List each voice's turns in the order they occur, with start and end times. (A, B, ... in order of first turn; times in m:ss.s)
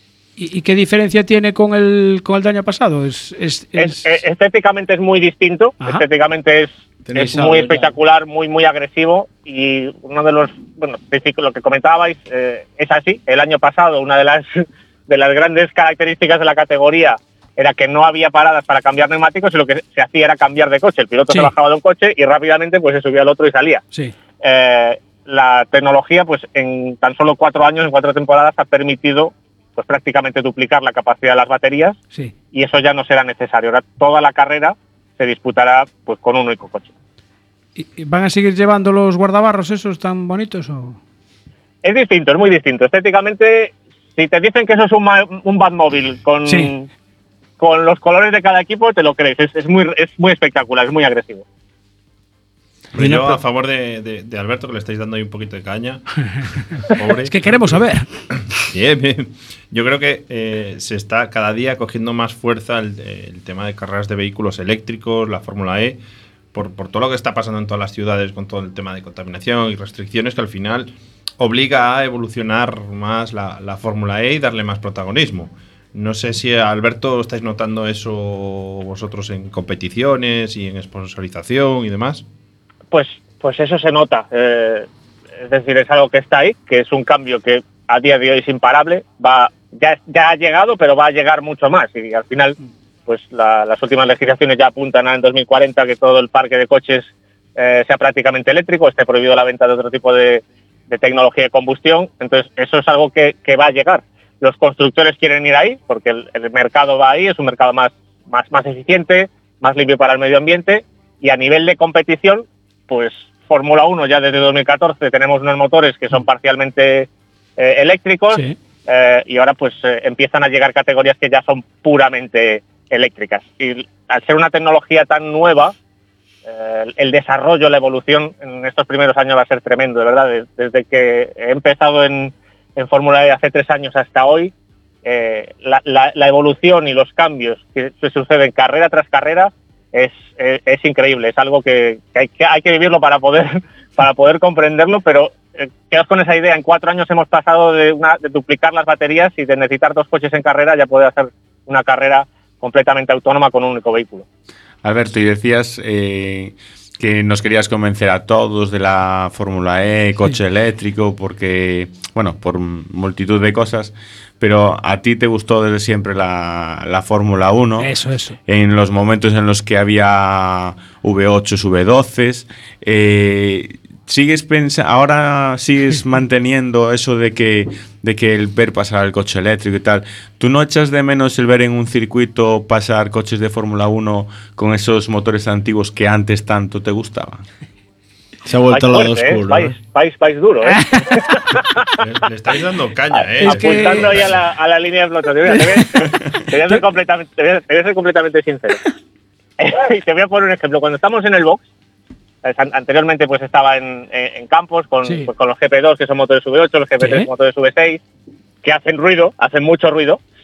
0:00.4-0:04.1 A
0:03.8-0:23.8 B
0:07.0-0:07.9 C
0:24.4-0:32.0 B
0:32.5-0:36.9 B
0:37.8-0:41.0 A
0:41.8-0:46.9 B
0:46.5-0:46.7 A
0:47.6-0:51.4 B
0:53.0-0:56.3 D
0:53.0-0:53.4 C
0:56.9-0:57.8 D
0:57.2-0:58.1 A
0:58.6-1:06.0 D
1:06.5-1:22.2 D
1:22.9-1:32.6 B
1:33.1-2:05.7 B
2:06.4-2:14.5 B
2:15.0-2:34.3 B
2:34.8-2:47.9 E
2:47.8-2:48.4 A
2:48.5-3:07.4 E
3:08.5-3:09.8 C
3:08.7-3:12.0 B
3:10.6-3:11.2 A
3:12.0-3:14.4 D
3:13.1-3:18.8 B
3:13.4-3:14.1 A
3:15.5-3:16.8 A
3:19.6-3:21.6 B
3:22.4-3:28.0 B
3:27.0-3:27.3 A
3:28.6-3:30.2 B